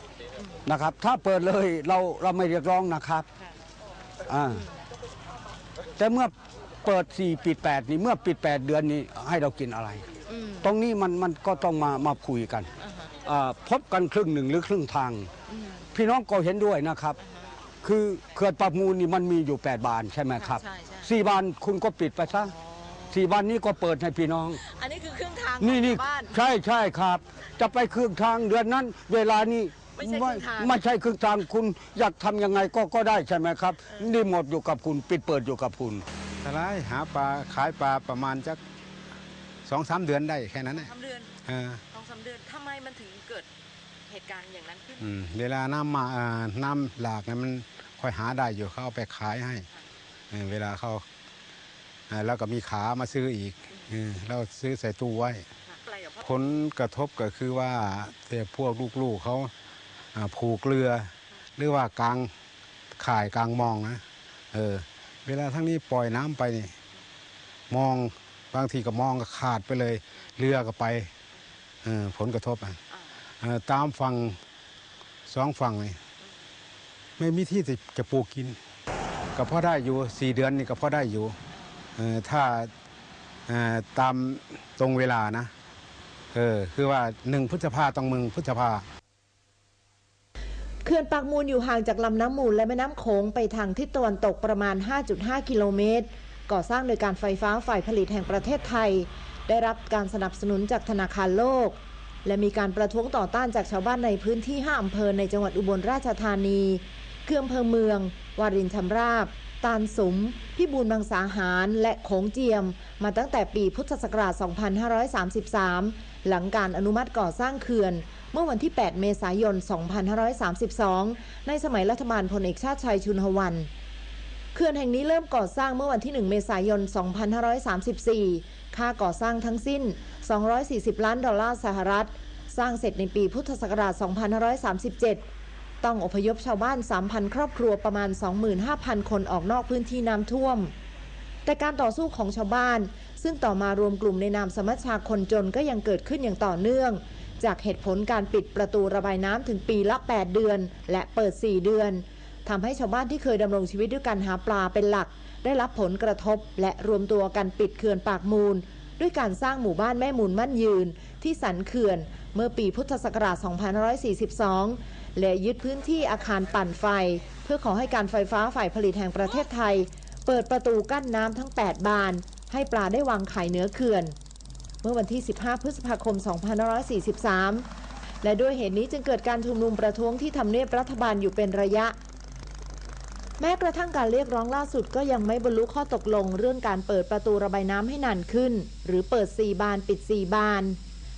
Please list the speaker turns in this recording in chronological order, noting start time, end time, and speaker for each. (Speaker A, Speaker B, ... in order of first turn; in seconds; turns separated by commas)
Speaker A: 0.6-3.2, Speaker A: 4.3-4.7, Speaker B: 4.5-4.8, Speaker A: 6.0-6.3, Speaker A: 6.8-10.1, Speaker B: 10.3-10.7, Speaker A: 10.6-12.7, Speaker B: 12.8-13.2, Speaker A: 13.2-15.3, Speaker B: 15.5-15.8, Speaker A: 15.9-17.2, Speaker B: 17.3-17.5, Speaker A: 17.8-22.5, Speaker B: 20.4-21.1, Speaker B: 22.6-23.0, Speaker A: 23.1-24.6, Speaker B: 24.6-26.3, Speaker A: 25.6-36.0, Speaker B: 30.0-30.7, Speaker C: 36.4-38.6, Speaker C: 39.6-40.9, Speaker B: 40.7-41.3, Speaker C: 41.5-41.8, Speaker B: 41.9-43.5, Speaker B: 44.1-45.1, Speaker C: 45.0-49.7, Speaker C: 50.3-51.0, Speaker C: 52.1-55.4, Speaker B: 55.7-56.2, Speaker C: 56.2-59.5, Speaker C: 60.1-62.3, Speaker C: 63.0-64.0, Speaker C: 64.5-66.7, Speaker C: 67.7-71.1, Speaker C: 71.8-72.8, Speaker C: 73.4-74.4, Speaker C: 75.3-76.0, Speaker C: 77.2-78.6, Speaker C: 79.3-81.4, Speaker C: 82.0-82.7, Speaker C: 83.5-85.5, Speaker C: 86.3-88.8, Speaker D: 90.8-123.7, Speaker D: 124.5-135.2, Speaker D: 135.8-140.7, Speaker D: 141.4-174.1, Speaker D: 174.8-177.7, Speaker D: 178.2-181.9, Speaker D: 183.4-190.8